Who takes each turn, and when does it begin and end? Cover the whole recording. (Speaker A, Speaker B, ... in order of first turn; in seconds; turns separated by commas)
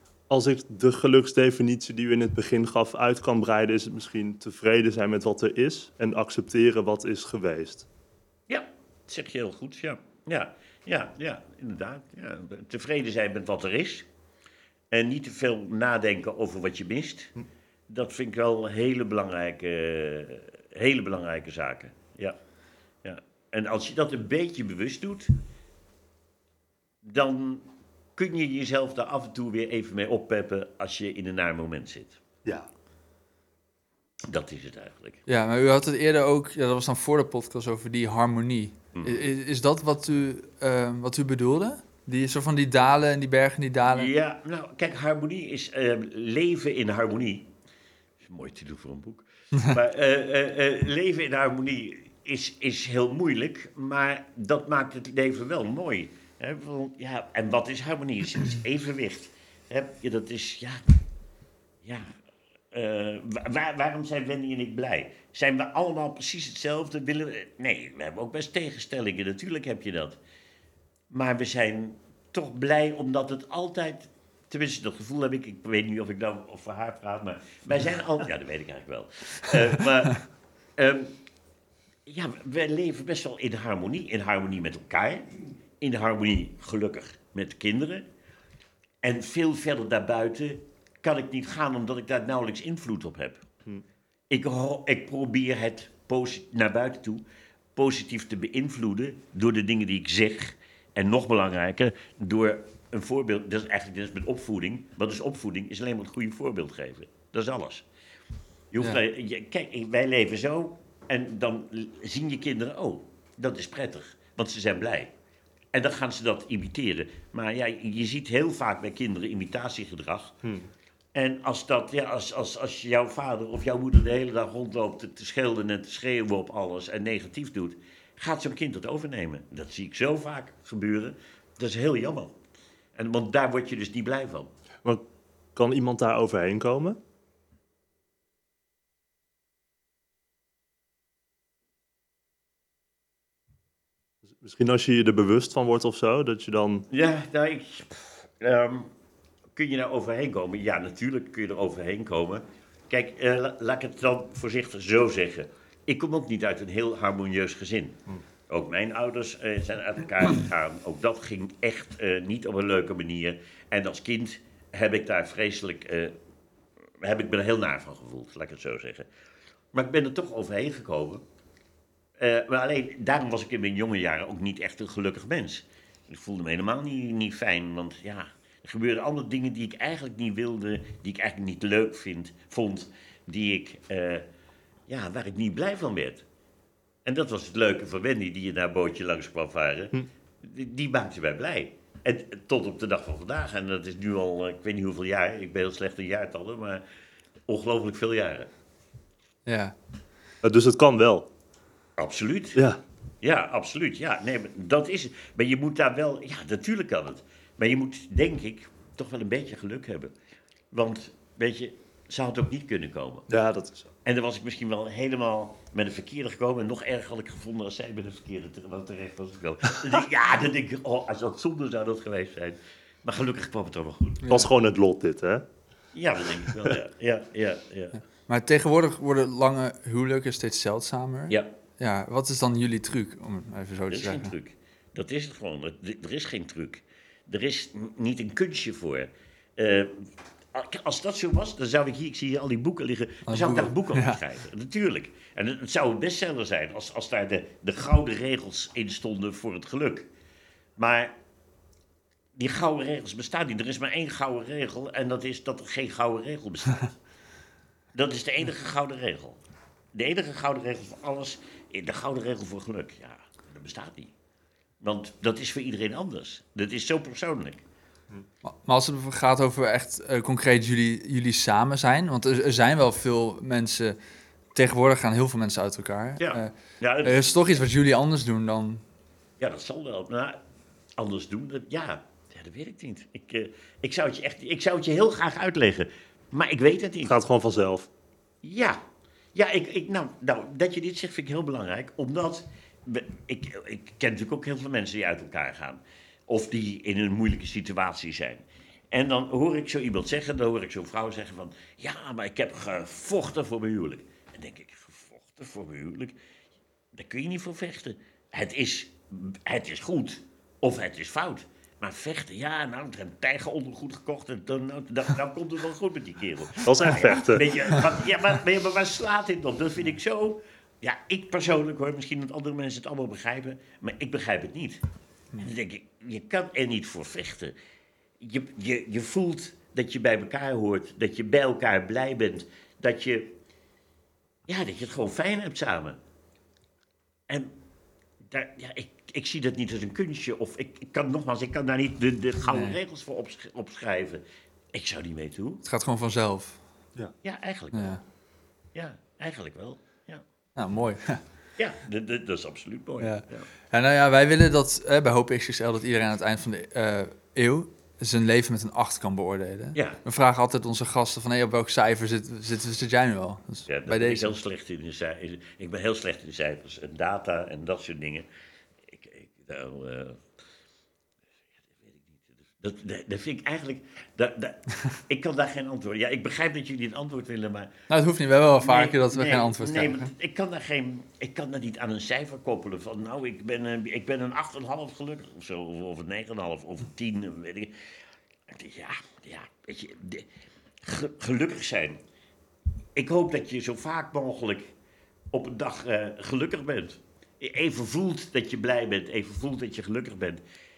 Speaker A: 0.3-7.9, Speaker B: 8.5-14.1, Speaker B: 14.9-17.3, Speaker B: 17.9-22.4, Speaker B: 23.0-25.3, Speaker B: 27.0-32.2, Speaker B: 34.3-35.2, Speaker C: 35.3-44.1, Speaker B: 39.0-39.2, Speaker B: 43.9-47.5, Speaker B: 48.2-60.9, Speaker B: 61.8-62.2, Speaker B: 62.7-70.2, Speaker B: 71.1-81.2, Speaker B: 82.1-88.1, Speaker B: 89.0-93.5, Speaker B: 94.3-97.2, Speaker B: 97.8-107.9, Speaker B: 108.7-115.1, Speaker B: 115.7-120.4, Speaker A: 120.4-120.7, Speaker B: 121.2-132.3, Speaker B: 132.9-134.5, Speaker A: 135.6-137.0, Speaker A: 144.4-146.9, Speaker B: 146.9-148.9, Speaker B: 149.6-166.1, Speaker B: 167.0-169.1, Speaker B: 169.7-171.2, Speaker B: 172.2-184.3, Speaker B: 184.9-186.3, Speaker B: 187.1-196.8, Speaker B: 197.5-198.5, Speaker C: 199.5-199.8, Speaker A: 200.4-201.3, Speaker B: 202.0-202.6, Speaker A: 202.6-202.8, Speaker B: 203.2-210.1, Speaker B: 210.7-213.3, Speaker A: 213.3-213.9, Speaker B: 214.1-224.3, Speaker A: 224.3-225.4, Speaker B: 225.9-228.0, Speaker C: 228.3-234.3, Speaker B: 231.3-231.6, Speaker B: 233.9-250.1, Speaker C: 243.3-244.2, Speaker B: 250.8-251.1, Speaker B: 252.4-256.9, Speaker B: 257.9-259.4, Speaker B: 259.9-264.1, Speaker B: 264.8-267.6, Speaker C: 268.4-274.0, Speaker C: 274.6-276.5, Speaker B: 276.2-277.6, Speaker C: 277.0-278.8, Speaker B: 279.4-280.4, Speaker B: 281.0-287.1, Speaker A: 287.1-287.9, Speaker B: 288.4-288.8, Speaker B: 289.4-306.2, Speaker B: 306.9-324.8, Speaker A: 316.6-317.6, Speaker B: 325.4-327.6, Speaker B: 328.2-333.3, Speaker B: 334.5-336.0, Speaker B: 337.3-337.5, Speaker B: 338.3-344.2, Speaker C: 342.5-342.8, Speaker B: 344.7-345.6, Speaker C: 345.6-346.6, Speaker B: 347.2-348.0, Speaker C: 347.7-348.0, Speaker B: 348.8-350.2, Speaker C: 350.6-351.2, Speaker B: 351.6-353.5, Speaker C: 353.0-364.4, Speaker B: 359.8-360.0, Speaker B: 363.7-368.3, Speaker B: 368.9-370.2, Speaker B: 371.7-377.7, Speaker C: 377.9-380.1, Speaker B: 378.6-387.8, Speaker B: 388.5-390.3, Speaker B: 390.8-392.0, Speaker B: 393.0-394.7, Speaker B: 395.3-400.4